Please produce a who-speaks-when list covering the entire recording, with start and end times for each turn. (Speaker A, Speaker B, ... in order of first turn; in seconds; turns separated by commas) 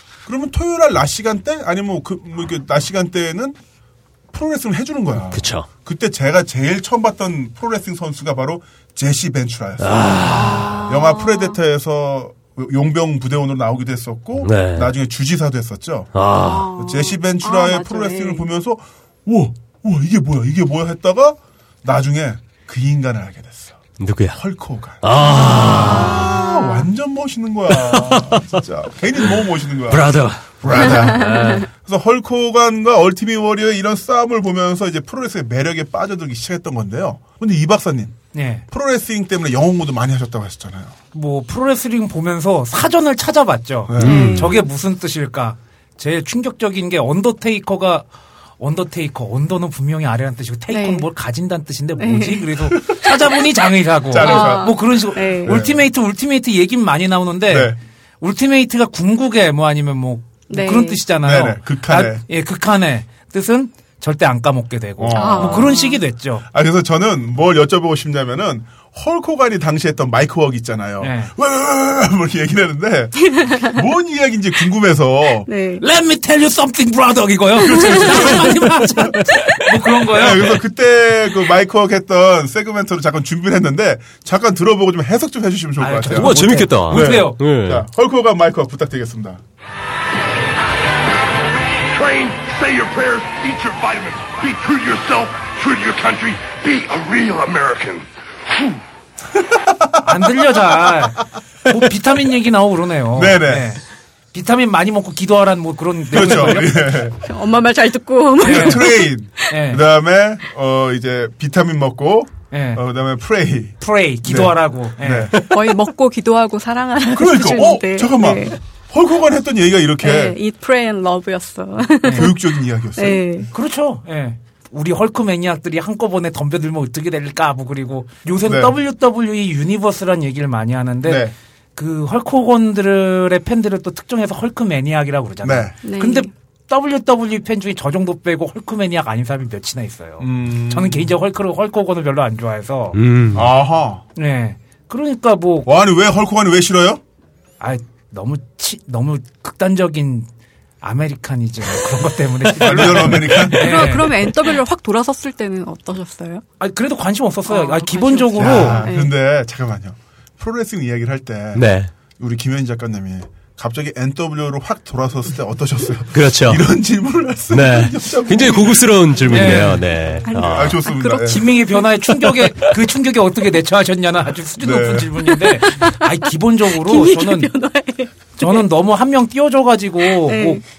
Speaker A: 0.2-3.5, Speaker A: 4.3-16.1, Speaker B: 5.3-5.7, Speaker B: 9.8-10.9, Speaker C: 10.3-11.6, Speaker B: 14.4-14.9, Speaker B: 16.1-16.7, Speaker C: 16.4-18.4, Speaker A: 16.7-38.2, Speaker B: 24.0-24.4, Speaker B: 25.0-26.4, Speaker C: 25.5-26.9, Speaker B: 27.7-28.4, Speaker B: 29.9-31.7, Speaker C: 30.9-31.6, Speaker D: 38.3-38.6, Speaker A: 38.7-40.9, Speaker D: 41.1-48.1, Speaker A: 43.9-44.4, Speaker C: 44.0-44.6, Speaker B: 44.0-44.5, Speaker D: 48.6-66.5, Speaker C: 50.7-51.1, Speaker C: 52.0-52.5, Speaker A: 52.7-53.1, Speaker A: 54.1-55.9, Speaker C: 54.2-55.6, Speaker A: 57.5-57.8, Speaker C: 60.5-61.0, Speaker A: 61.2-62.2, Speaker A: 65.0-65.8, Speaker C: 65.1-66.0, Speaker A: 66.5-75.5, Speaker D: 71.0-71.3, Speaker C: 73.3-73.8, Speaker C: 75.5-75.8, Speaker D: 75.8-80.6, Speaker A: 77.6-89.4, Speaker C: 77.7-78.0, Speaker D: 85.8-87.4, Speaker B: 86.1-87.8, Speaker E: 91.9-98.0, Speaker A: 99.4-100.2, Speaker D: 100.0-106.9, Speaker A: 103.1-103.8, Speaker A: 106.1-107.2, Speaker C: 107.2-109.5, Speaker D: 108.4-108.9, Speaker A: 108.4-115.5, Speaker D: 109.5-109.8, Speaker D: 112.5-112.8, Speaker D: 113.8-115.4, Speaker C: 115.5-118.6, Speaker A: 117.1-120.4, Speaker C: 120.0-122.4, Speaker D: 122.0-122.3, Speaker A: 122.1-123.5, Speaker C: 123.0-123.5, Speaker D: 123.5-143.0, Speaker A: 128.4-128.8, Speaker A: 131.0-131.3, Speaker A: 135.4-135.7, Speaker C: 135.8-136.3, Speaker A: 140.2-141.1, Speaker B: 142.9-143.5, Speaker A: 143.3-144.0, Speaker D: 144.2-145.7, Speaker A: 145.6-147.0, Speaker D: 147.6-150.3, Speaker D: 150.8-154.4, Speaker A: 152.6-154.0, Speaker C: 153.5-156.4, Speaker D: 156.6-158.8, Speaker C: 157.5-159.1, Speaker A: 158.4-169.7, Speaker B: 161.5-161.9, Speaker B: 166.1-166.6, Speaker B: 167.5-170.8, Speaker D: 169.3-169.9, Speaker C: 170.2-172.1, Speaker A: 170.3-171.5, Speaker D: 171.2-177.5, Speaker A: 174.6-175.1, Speaker C: 175.4-178.7, Speaker D: 178.4-180.6, Speaker C: 180.1-180.6